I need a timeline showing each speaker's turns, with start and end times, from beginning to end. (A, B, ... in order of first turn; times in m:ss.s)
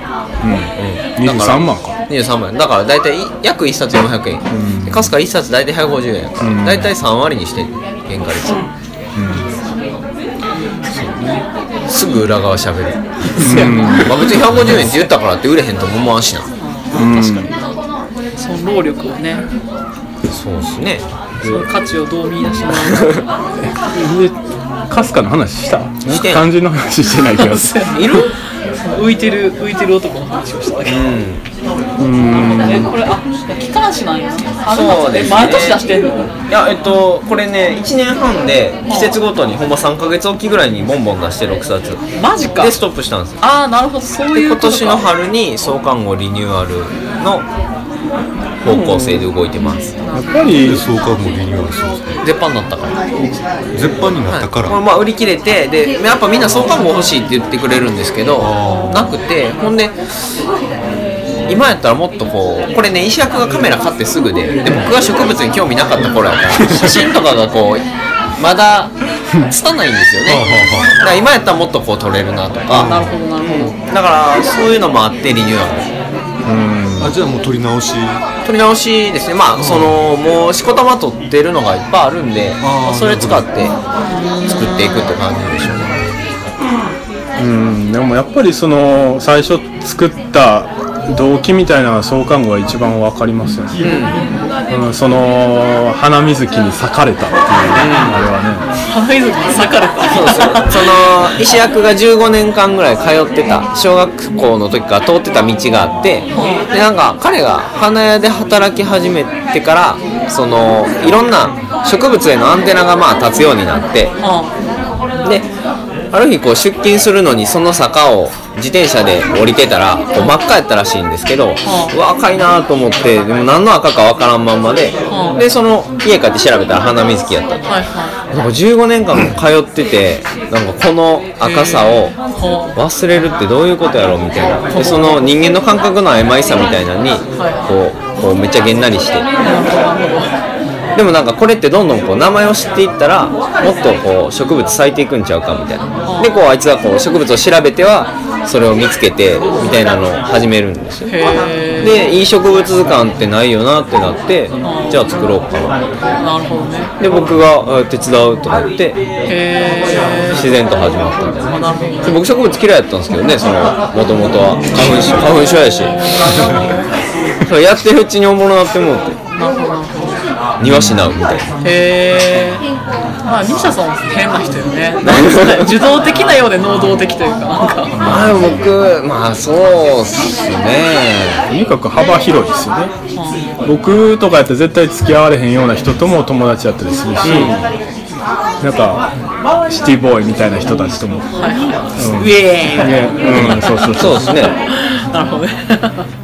0:00.4-0:02.0 A
0:00.8-0:08.6 B
0:04.5-0:05.1 A
0:06.4-0:06.9 A
0:09.2-0:09.5 A
0:11.0-0:11.4 A
0:11.9-0:16.5 B
0:13.4-0:14.2 C
0:13.4-0:14.8 A
0:16.6-0:17.2 C
0:16.9-0:17.6 A
0:18.4-0:19.4 C
0:20.3-0:21.0 B
0:21.4-0:23.2 C
0:22.8-0:23.2 B
0:23.6-0:24.4 A
0:24.9-0:28.2 A
0:26.1-0:26.4 B
0:27.2-0:31.0 C
0:30.8-0:31.4 B
0:32.0-0:32.9 A
0:32.3-0:36.3 C
0:34.7-0:35.8 B
0:36.5-0:43.4 B
0:38.9-0:39.1 C
0:42.2-0:42.8 C
0:43.4-0:45.0 C
0:44.3-0:47.5 B
0:48.6-0:50.0 B
0:48.7-0:49.1 A
0:50.0-0:50.5 C
0:50.1-0:50.8 A
0:50.6-0:52.2 D
0:52.2-0:53.0 B
0:53.7-0:54.8 D
0:54.2-1:00.0 B
0:58.4-0:59.2 D
1:01.5-1:07.8 B
1:06.5-1:07.0 D
1:08.4-1:15.9 B
1:10.3-1:11.0 D
1:12.7-1:13.1 D
1:12.7-1:13.8 C
1:16.4-1:17.2 A
1:17.0-1:18.2 D
1:18.4-1:23.8 B
1:19.6-1:20.0 D
1:22.6-1:23.5 D
1:24.1-1:25.1 C
1:24.4-1:26.0 B
1:27.4-1:33.8 A
1:33.8-1:34.2 B
1:34.7-1:38.7 A
1:37.7-1:38.2 B
1:38.8-1:40.8 C
1:40.1-1:54.1 B
1:46.3-1:46.6 C
1:54.2-1:54.5 C
1:56.1-2:07.7 B
2:01.6-2:02.0 C
2:05.1-2:05.4 C
2:07.6-2:08.2 C
2:08.3-2:12.2 B
2:11.4-2:12.8 C
2:12.8-2:19.3 B
2:14.6-2:15.3 C
2:17.4-2:17.7 C
2:19.4-2:20.3 C
2:21.0-2:31.1 B
2:26.0-2:26.4 C
2:31.1-2:32.0 C
2:31.8-2:35.8 B
2:34.6-2:35.3 C
2:36.2-2:36.9 C
2:37.0-2:39.0 B
2:39.3-2:40.4 C
2:40.3-2:46.0 B
2:41.5-2:42.2 C
2:45.3-2:46.7 C
2:47.4-2:49.2 B
2:49.4-2:50.2 C
2:50.6-2:51.5 B
2:50.6-2:51.0 A
2:51.6-2:52.6 C
2:53.3-2:58.0 C
2:55.0-2:55.8 B
2:57.9-2:58.6 A
2:58.0-3:01.4 B
3:01.5-3:02.9 A
3:03.2-3:03.4 C
3:03.6-3:07.5 A
3:07.2-3:07.7 B
3:08.6-3:09.1 A
3:09.7-3:11.3 A
3:11.4-3:16.1 C
3:12.0-3:14.3 A
3:13.2-3:14.5 B